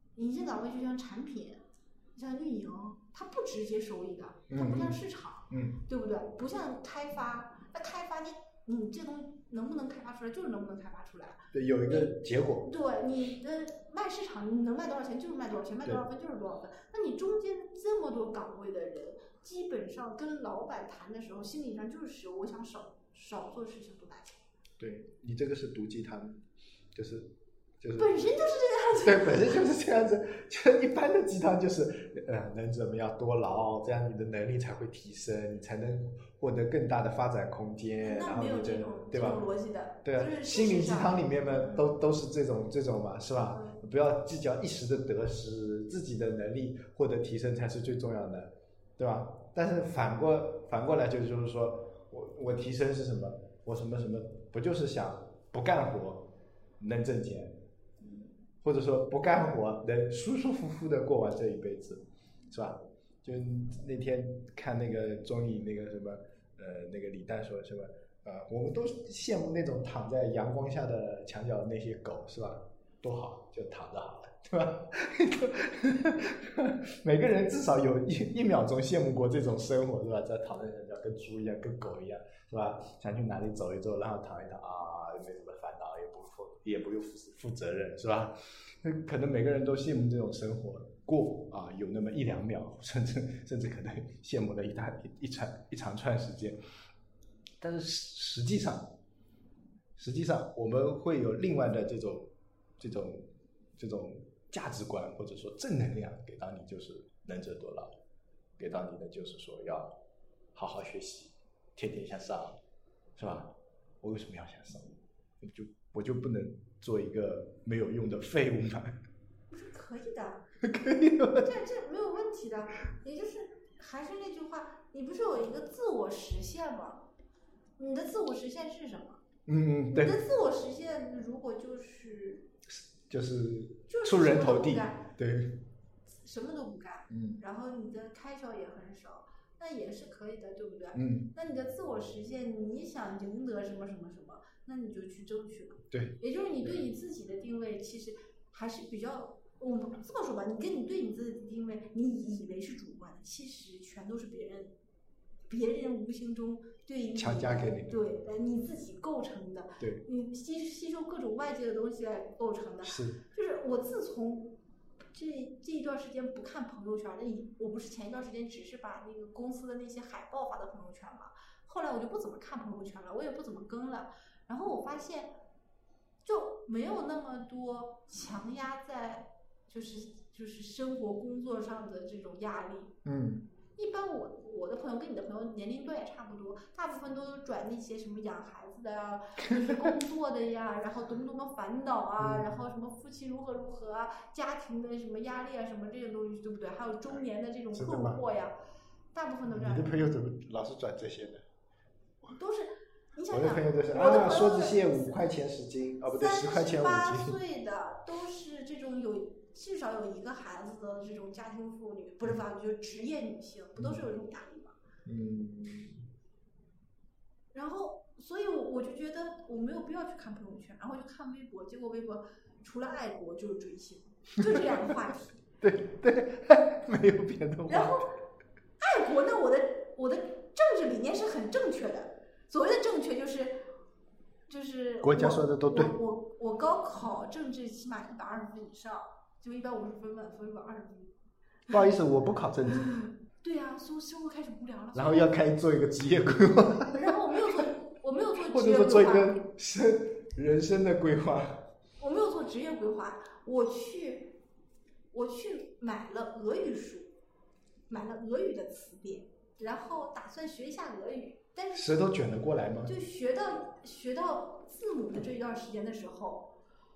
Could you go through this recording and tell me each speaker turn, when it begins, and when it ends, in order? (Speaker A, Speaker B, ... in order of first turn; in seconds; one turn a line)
Speaker A: 0.1-1.6
Speaker A: 2.1-24.4
Speaker B: 4.5-5.8
Speaker B: 11.5-12.7
Speaker B: 24.8-26.4
Speaker B: 26.9-28.1
Speaker A: 28.0-29.6
Speaker B: 29.0-39.4
Speaker A: 38.0-41.9
Speaker B: 40.0-57.6
Speaker B: 58.6-96.6
Speaker B: 97.6-98.9
Speaker B: 100.0-108.0
Speaker B: 108.6-109.9
Speaker B: 110.5-112.6
Speaker B: 113.2-113.5
Speaker B: 114.0-119.0
Speaker A: 119.5-120.4
Speaker B: 120.6-121.5
Speaker A: 121.4-127.0
Speaker A: 127.8-129.2
Speaker B: 129.4-130.2
Speaker A: 129.9-132.5
Speaker B: 132.7-135.6
Speaker A: 133.9-135.1
Speaker A: 136.1-154.7
Speaker B: 137.1-137.4
Speaker B: 140.9-141.3
Speaker B: 145.9-146.8
Speaker A: 155.5-164.5
Speaker B: 157.2-158.0
Speaker B: 162.8-163.2
Speaker A: 165.1-175.3
Speaker A: 176.2-182.9
Speaker B: 183.0-183.5
Speaker A: 183.8-198.6
Speaker B: 192.2-192.5
Speaker B: 197.7-198.2
Speaker A: 199.1-200.0
Speaker B: 199.5-201.4
Speaker A: 202.3-205.2
Speaker B: 203.3-207.4
Speaker A: 206.1-214.8
Speaker B: 213.8-214.0
Speaker B: 215.1-216.0
Speaker A: 217.5-225.3
Speaker B: 225.6-228.0
Speaker A: 227.7-228.1
Speaker A: 228.8-233.7
Speaker A: 234.5-241.1
Speaker B: 235.0-235.9
Speaker B: 241.7-242.9
Speaker A: 242.9-245.3
Speaker B: 244.9-247.1
Speaker A: 246.9-249.5
Speaker B: 248.4-251.6
Speaker A: 252.0-254.4
Speaker A: 255.1-257.1
Speaker A: 257.9-262.1
Speaker B: 261.7-262.9
Speaker A: 262.8-266.5